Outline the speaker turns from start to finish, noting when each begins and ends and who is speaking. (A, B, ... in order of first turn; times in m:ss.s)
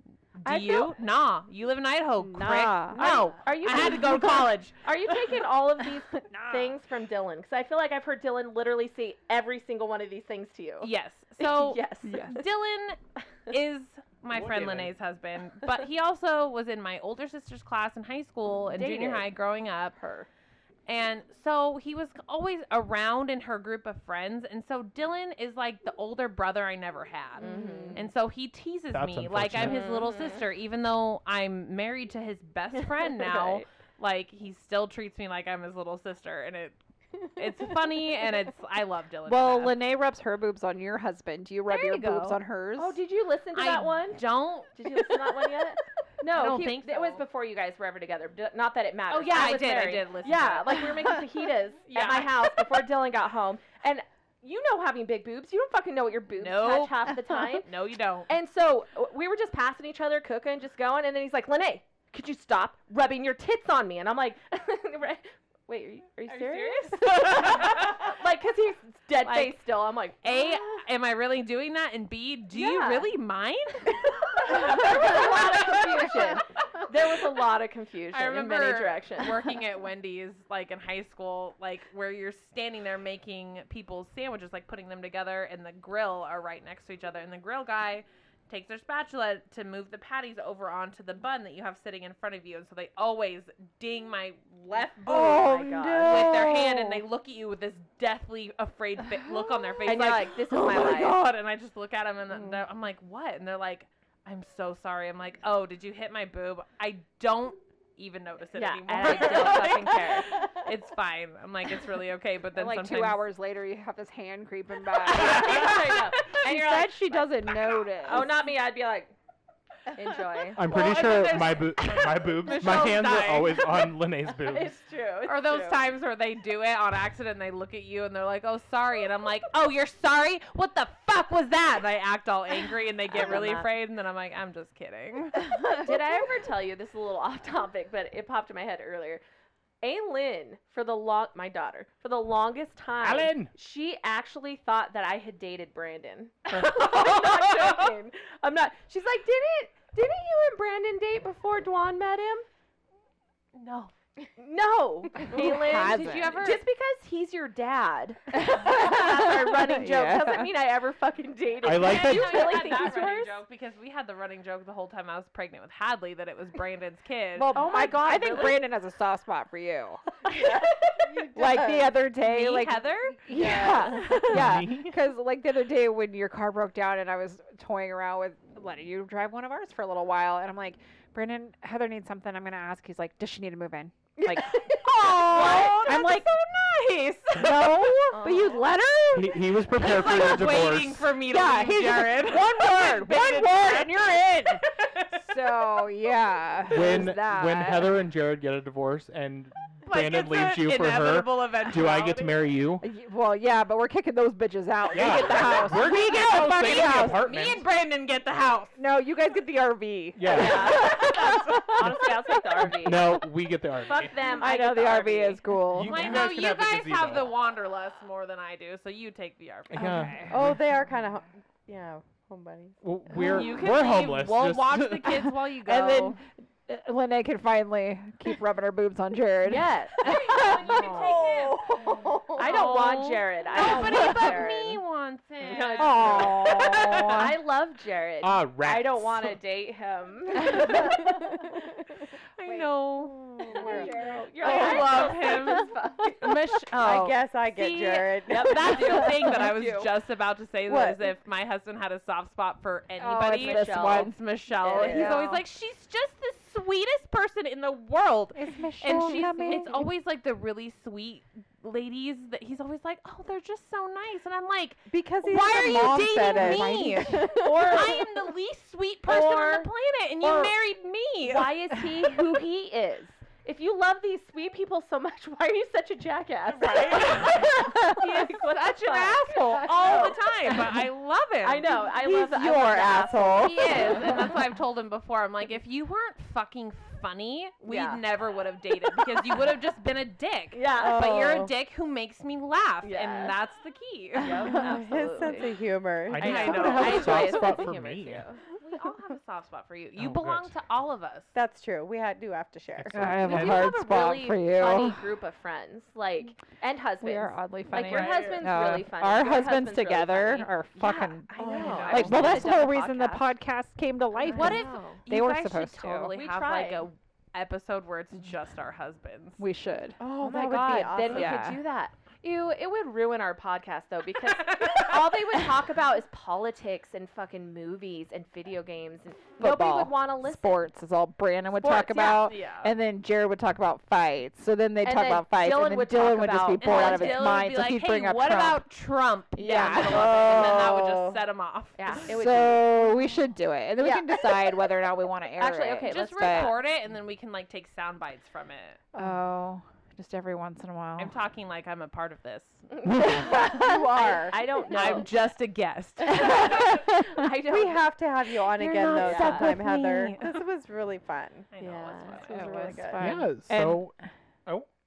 0:00.4-0:05.1 A
0:00.4-0:00.9 B
0:02.3-0:03.3 C
0:02.3-0:12.4 B
0:06.2-0:06.8 C
0:10.8-0:20.0 A
0:12.0-0:12.4 C
0:14.3-0:14.9 D
0:18.7-0:19.3 B
0:19.9-0:20.3 B
0:20.9-0:36.8 A
0:27.4-0:28.0 B
0:27.4-0:28.0 E
0:28.9-0:29.8 D
0:29.6-0:30.4 B
0:32.9-0:33.7 B
0:37.3-0:39.8 A
0:39.3-0:43.0 C
0:41.7-0:42.4 A
0:42.8-0:57.7 B
0:43.5-0:45.2 A
0:46.3-0:47.2 A
0:49.1-0:51.2 A
0:51.9-0:52.7 A
0:56.4-0:58.3 A
0:58.3-1:10.8 B
1:06.3-1:08.1 A
1:09.2-1:09.6 A
1:10.2-1:16.4 A
1:12.5-1:13.1 B
1:14.3-1:19.4 B
1:18.1-1:53.2 A
1:35.1-1:36.6 C
1:35.1-1:36.6 B
1:39.8-1:41.2 B
1:40.7-1:41.1 C
1:48.5-1:50.4 B
1:52.5-1:58.4 C
1:55.0-1:59.2 B
1:55.1-1:56.2 A
1:59.9-2:00.6 B
2:00.6-2:04.8 D
2:00.6-2:03.9 A
2:02.4-2:03.0 C
2:04.2-2:05.8 B
2:05.3-2:15.6 A
2:13.1-2:13.7 B
2:15.6-2:19.2 B
2:19.8-2:32.4 B
2:23.0-2:23.5 D
2:26.5-2:27.8 D
2:33.5-2:33.9 A
2:34.4-2:43.4 B
2:35.3-2:36.5 C
2:35.3-2:36.6 A
2:38.4-2:40.5 C
2:41.6-2:42.6 D
2:41.7-2:47.7 A
2:47.4-2:50.2 C
2:47.5-2:48.6 B
2:50.3-2:52.0 E
2:51.3-3:06.4 C
2:52.2-2:54.2 A
2:53.3-2:54.3 E
2:54.3-2:55.0 D
3:04.5-3:05.8 B
3:04.6-3:07.5 A
3:07.3-3:09.4 C
3:08.1-3:08.6 B
3:09.1-3:11.2 D
3:09.8-3:15.4 A
3:10.0-3:10.6 C
3:11.2-3:14.6 C
3:15.1-3:18.0 C
3:16.7-3:22.8 D
3:19.8-3:22.5 A
3:22.8-3:27.3 C
3:24.9-3:27.6 D
3:25.1-3:28.8 A
3:28.8-3:32.2 C
3:30.2-3:31.1 D
3:30.2-3:33.2 B
3:31.8-3:34.2 D
3:33.8-3:35.4 B
3:34.2-3:36.3 C
3:35.7-3:37.3 D
3:35.8-3:40.2 A
3:39.7-3:40.6 D
3:39.8-3:40.6 C
3:40.3-3:43.5 E
3:42.8-3:45.2 D
3:43.2-3:46.2 A
3:45.2-3:50.8 C
3:49.4-3:54.8 B
3:50.0-3:51.8 A
3:50.8-3:52.6 E
3:52.4-3:57.2 A
3:55.4-4:01.4 B
3:55.8-3:57.4 C
3:58.2-3:59.4 D
4:00.6-4:01.0 C
4:00.6-4:01.7 E
4:02.4-4:31.6 A
4:03.2-4:05.6 E
4:03.5-4:06.3 B
4:03.5-4:04.9 C
4:06.7-4:09.4 E
4:08.3-4:09.9 B
4:10.7-4:11.1 E
4:13.0-4:14.2 C
4:13.3-4:15.2 B
4:14.8-4:15.2 E
4:14.8-4:15.4 C
4:18.3-4:19.9 C
4:18.8-4:19.7 E
4:24.9-4:28.1 E
4:26.3-4:27.5 C
4:29.2-4:29.6 C
4:31.2-4:40.6 B
4:36.6-4:41.8 A
4:41.4-4:44.2 B
4:42.0-4:44.0 E
4:42.1-4:43.5 C
4:43.5-4:55.4 A
4:47.7-4:48.1 B
4:50.5-4:51.4 B
4:50.8-4:51.5 E
4:52.8-4:53.4 B
4:54.2-4:55.5 B
4:54.4-4:56.7 E
4:56.1-4:58.3 D
4:56.1-4:57.6 A
4:56.2-4:58.4 B
4:58.5-5:01.3 A
5:00.0-5:00.5 D
5:01.4-5:03.1 E
5:02.8-5:03.7 D
5:02.9-5:05.0 C
5:03.2-5:13.3 B
5:07.0-5:16.1 C
5:07.7-5:08.4 A
5:11.3-5:12.1 E
5:11.4-5:12.6 A
5:14.2-5:15.0 B
5:14.3-5:19.4 A
5:16.1-5:16.9 B
5:19.4-5:21.6 C
5:20.0-5:21.4 E
5:20.2-5:30.7 B
5:24.2-5:25.0 A
5:29.4-5:38.6 C
5:31.5-5:32.3 B
5:32.0-5:32.7 A
5:34.8-5:37.4 B
5:36.6-5:42.1 A
5:39.3-5:40.7 C
5:39.9-5:41.2 E
5:41.8-5:42.8 B
5:42.0-5:46.6 C
5:43.8-5:44.2 B
5:45.4-5:46.6 B
5:45.9-5:48.8 A
5:49.0-5:51.2 C
5:51.0-5:52.7 A
5:52.7-5:55.1 B
5:53.0-5:55.0 E
5:54.7-5:56.6 A
5:56.0-5:57.9 B
5:56.2-5:57.0 C
5:57.5-6:01.5 E
5:58.6-5:59.6 B
5:58.7-6:00.5 A
5:58.9-6:00.2 C
6:01.5-6:02.8 A
6:01.6-6:03.0 B
6:02.2-6:03.9 C
6:02.3-6:03.1 E
6:03.0-6:04.0 D